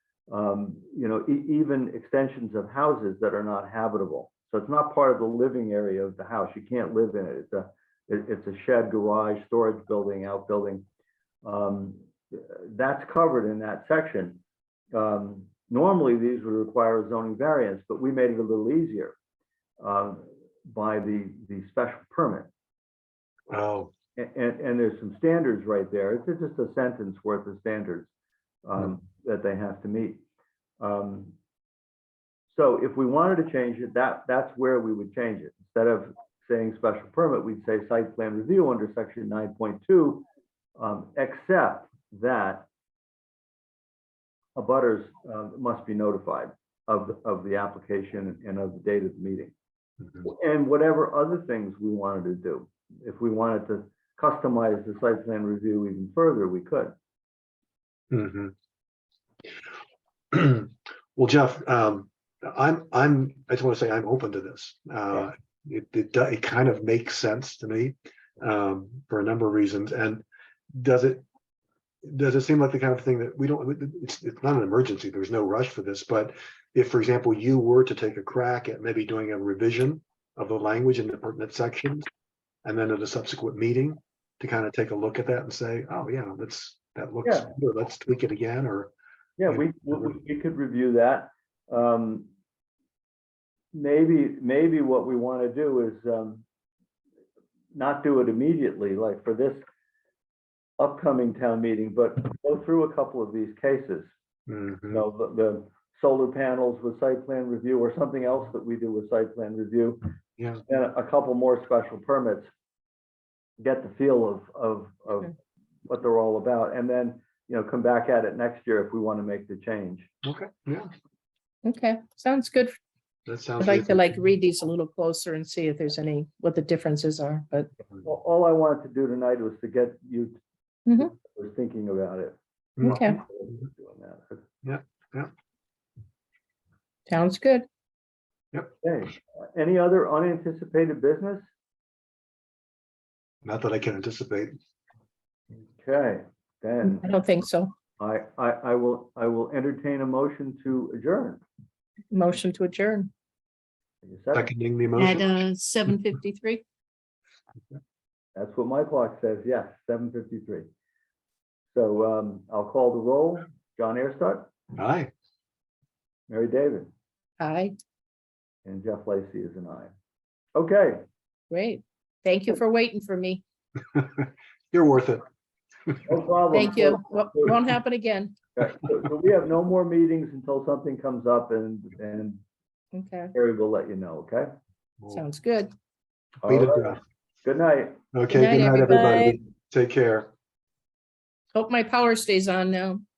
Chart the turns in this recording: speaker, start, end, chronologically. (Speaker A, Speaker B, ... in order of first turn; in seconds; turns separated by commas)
Speaker A: 0.3-10.8, Speaker A: 11.4-14.4, Speaker A: 14.9-19.2, Speaker A: 19.8-22.5, Speaker B: 23.5-23.9, Speaker A: 24.1-28.1, Speaker A: 28.6-30.2, Speaker A: 30.8-31.3, Speaker A: 32.5-42.7, Speaker A: 44.5-49.5, Speaker A: 50.2-56.9, Speaker B: 58.1-58.5, Speaker B: 60.3-71.2, Speaker B: 72.0-82.1, Speaker B: 82.6-88.9, Speaker A: 87.2-87.5, Speaker A: 89.4-92.3, Speaker B: 89.5-90.1, Speaker A: 93.7-96.4, Speaker A: 97.7-99.6, Speaker A: 100.8-104.1, Speaker B: 104.5-105.0, Speaker A: 104.9-110.1, Speaker B: 110.4-110.6, Speaker A: 110.6-112.5, Speaker A: 113.6-115.3, Speaker A: 115.9-120.1, Speaker B: 120.2-120.9, Speaker C: 121.6-122.8, Speaker B: 123.2-124.2, Speaker C: 123.6-127.7, Speaker A: 128.0-130.4, Speaker C: 130.8-131.1, Speaker A: 131.0-132.4, Speaker B: 132.8-133.2, Speaker C: 132.8-133.2, Speaker A: 132.9-134.4, Speaker B: 134.6-135.3, Speaker C: 137.1-137.7, Speaker A: 138.8-141.5, Speaker B: 143.4-144.6, Speaker A: 145.7-147.1, Speaker C: 146.9-147.7, Speaker A: 148.0-151.4, Speaker C: 152.1-153.1, Speaker A: 154.0-154.5, Speaker B: 154.3-155.4, Speaker C: 155.1-156.6, Speaker A: 158.3-160.7, Speaker A: 161.7-164.5, Speaker B: 164.7-165.1, Speaker A: 166.3-166.9, Speaker C: 167.4-167.7, Speaker A: 168.6-169.9, Speaker A: 170.5-171.0, Speaker C: 171.5-173.4, Speaker B: 173.9-175.2, Speaker A: 176.0-177.5, Speaker C: 176.5-178.3, Speaker A: 178.6-182.4, Speaker C: 182.9-183.3, Speaker A: 183.3-184.5, Speaker C: 185.1-185.7, Speaker A: 186.4-188.0, Speaker B: 186.4-187.0, Speaker B: 188.1-190.3, Speaker C: 188.3-189.4, Speaker C: 191.5-193.0